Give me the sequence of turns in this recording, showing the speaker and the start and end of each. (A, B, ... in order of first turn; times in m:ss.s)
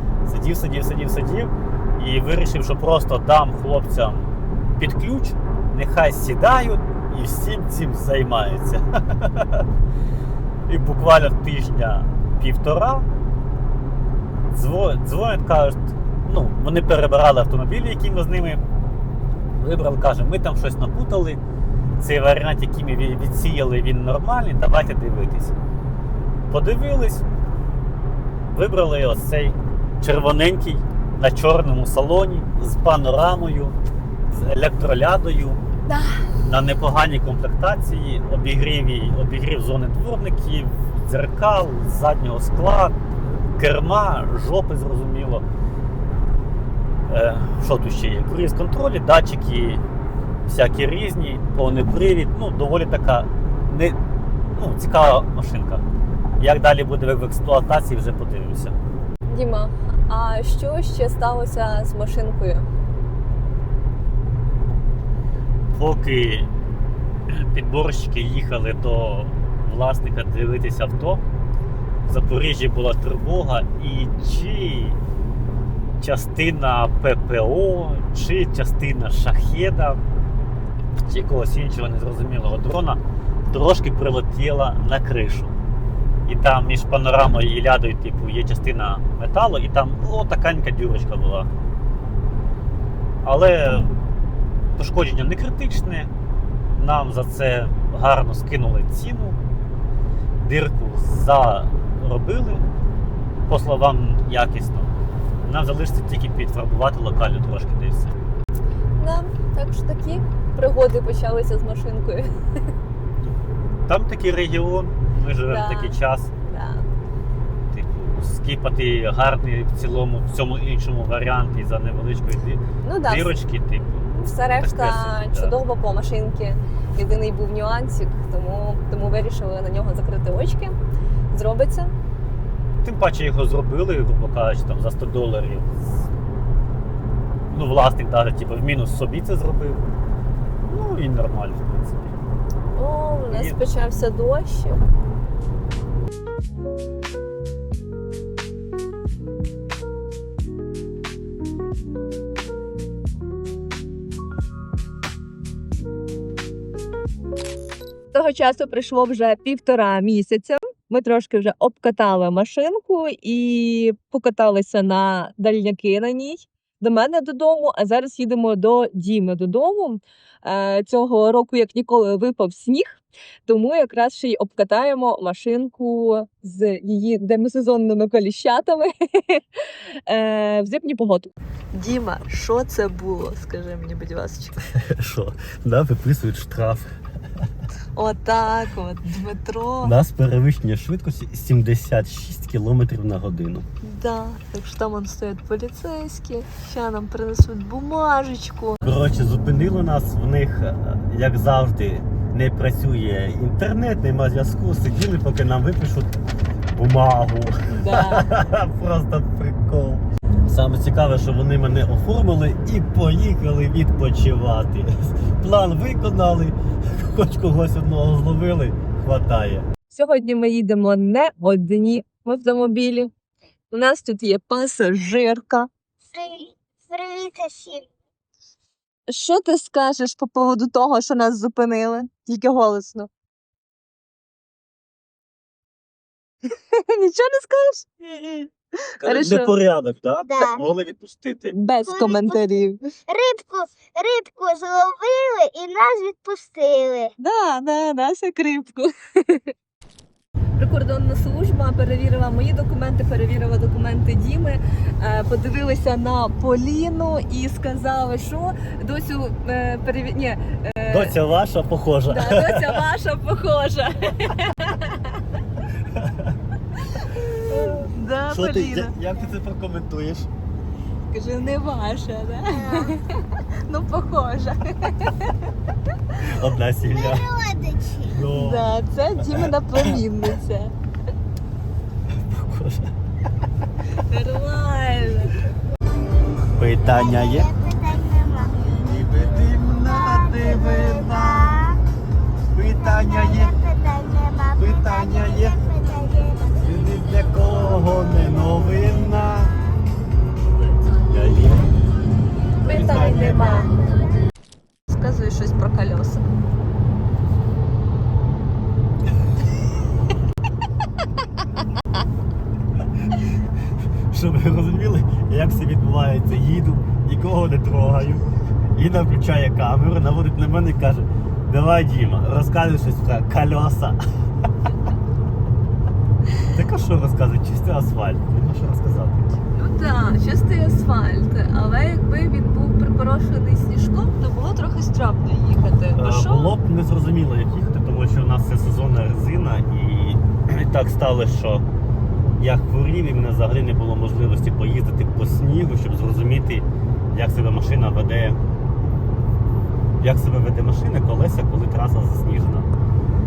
0:00.2-0:09.6 A
0:10.7-0:13.1 A
0:14.5-0:18.6 A
0:19.6-0:21.4 A
0:22.0-0:25.6 A
0:26.5-0:27.2 A
0:28.5-0:33.8 A
0:34.3-0:35.6 A
0:35.9-0:36.2 B
0:36.4-0:43.0 A
0:43.6-0:45.4 A
0:47.1-0:49.8 A
0:50.5-0:54.0 A
0:54.5-0:55.8 A
0:56.4-0:58.8 A
0:59.3-1:02.7 B
1:05.7-1:06.5 A
1:07.3-1:11.2 A
1:12.1-1:15.0 A
1:16.0-1:20.0 A
1:20.9-1:23.0 A
1:23.5-1:25.6 A
1:26.3-1:31.5 A
1:33.2-1:33.9 A
1:34.8-1:36.1 A
1:36.8-1:39.4 A
1:40.4-1:42.7 A
1:43.5-1:48.2 A
1:49.0-1:52.4 B
1:53.9-1:56.3 A
1:55.5-1:56.9 B
1:57.7-2:05.6 A
2:02.8-2:03.4 B
2:04.2-2:10.8 B
2:11.3-2:11.9 B
2:12.8-2:15.8 A
2:17.5-2:19.8 A
2:20.6-2:22.2 A
2:22.8-2:24.8 B
2:23.3-2:23.6 A
2:38.1-2:59.5 B
3:00.1-3:04.6 B
3:04.6-3:06.9 A
3:08.0-3:10.0 B
3:09.8-3:13.7 A
3:13.8-3:18.9 B
3:18.8-3:26.1 A
3:26.7-3:39.7 A
3:27.7-3:28.3 B
3:39.9-3:43.1 B
3:43.7-3:45.7 B
3:46.1-3:47.9 C
3:49.1-3:53.1 B
3:56.5-3:57.9 B
3:58.0-3:58.5 A
3:59.0-4:01.6 A
3:59.0-3:59.5 B
4:00.3-4:00.6 C
4:01.5-4:02.8 B
4:01.8-4:02.4 C
4:03.1-4:07.1 C
4:07.2-4:09.5 B
4:10.6-4:21.2 B
4:20.9-4:22.8 A
4:22.1-4:25.2 B
4:25.9-4:26.4 A
4:27.0-4:29.0 B
4:27.5-4:30.3 A
4:31.1-4:35.5 B
4:32.6-4:33.0 C
4:36.2-4:37.3 A
4:36.9-4:38.2 C
4:38.1-4:39.9 A
4:38.3-4:40.7 B
4:42.3-4:42.9 A
4:44.1-4:45.4 B
4:46.6-4:47.5 A
4:46.8-4:48.6 C
4:48.6-4:51.6 A
4:49.6-4:51.8 C
4:52.6-4:53.5 A
4:52.7-4:58.5 C
4:54.6-4:55.6 A
4:56.6-4:59.6 A
5:01.1-5:01.7 A
5:02.6-5:03.7 A
5:02.6-5:03.7 B
5:04.9-5:06.3 B
5:14.1-5:24.0 A
5:26.5-5:29.3 A
5:29.6-5:36.5 B
5:36.0-5:41.7 A
5:42.4-5:48.4 A
5:50.0-5:52.7 A